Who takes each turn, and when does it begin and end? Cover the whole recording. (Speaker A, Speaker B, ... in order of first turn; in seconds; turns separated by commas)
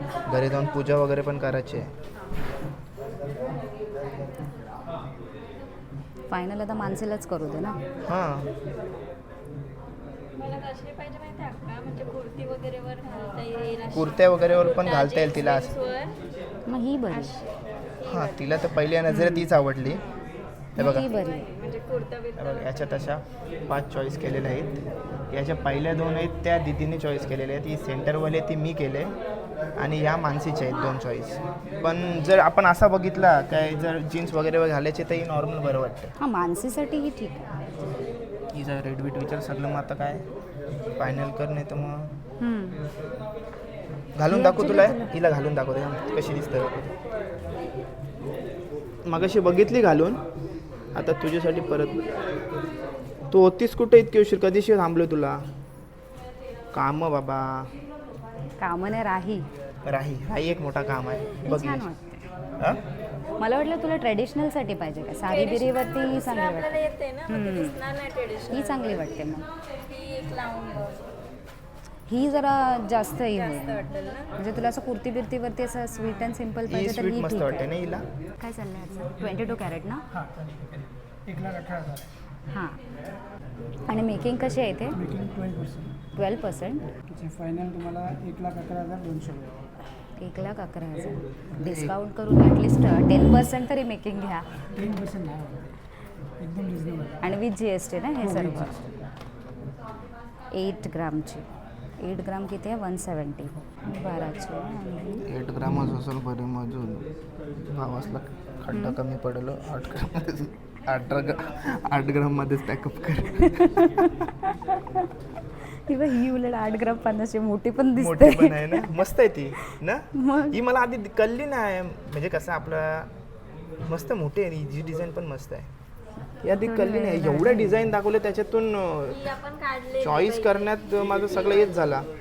Speaker A: 0.3-1.9, Speaker B: 6.3-7.8, Speaker A: 8.1-8.4, Speaker C: 10.3-16.1, Speaker A: 13.9-15.7, Speaker B: 16.7-17.3, Speaker C: 17.1-18.8, Speaker A: 18.1-20.0, Speaker B: 19.1-19.4, Speaker B: 20.8-21.5, Speaker A: 20.8-21.1, Speaker C: 20.8-22.9, Speaker A: 22.4-24.8, Speaker A: 25.3-29.1, Speaker A: 29.8-36.1, Speaker B: 36.2-37.4, Speaker A: 38.5-40.2, Speaker A: 41.0-42.1, Speaker B: 42.4-42.8, Speaker A: 44.1-46.9, Speaker B: 44.3-45.1, Speaker A: 49.1-50.2, Speaker A: 50.9-52.0, Speaker A: 53.3-55.4, Speaker A: 56.7-57.7, Speaker B: 58.6-59.5, Speaker A: 59.9-61.9, Speaker B: 61.4-62.2, Speaker B: 63.4-67.7, Speaker C: 65.2-69.1, Speaker B: 68.5-69.4, Speaker C: 69.8-71.1, Speaker B: 72.1-77.7, Speaker C: 73.1-74.3, Speaker A: 76.7-78.0, Speaker B: 78.4-80.0, Speaker D: 80.2-80.6, Speaker D: 81.3-82.0, Speaker B: 82.5-82.8, Speaker B: 83.9-84.9, Speaker D: 84.9-85.9, Speaker B: 86.2-86.9, Speaker D: 87.1-89.6, Speaker B: 90.2-94.5, Speaker A: 91.6-91.9, Speaker D: 94.7-95.7, Speaker D: 96.4-97.4, Speaker B: 97.2-98.7, Speaker D: 98.2-99.0, Speaker B: 100.5-101.4, Speaker B: 102.0-105.2, Speaker A: 105.2-107.0, Speaker A: 107.7-113.5, Speaker B: 108.7-109.0, Speaker B: 113.4-113.9, Speaker B: 115.9-119.0, Speaker A: 118.0-123.1, Speaker B: 120.2-120.6, Speaker A: 123.8-125.7, Speaker A: 126.4-129.2, Speaker B: 126.6-127.8, Speaker C: 129.1-130.7, Speaker A: 130.0-132.1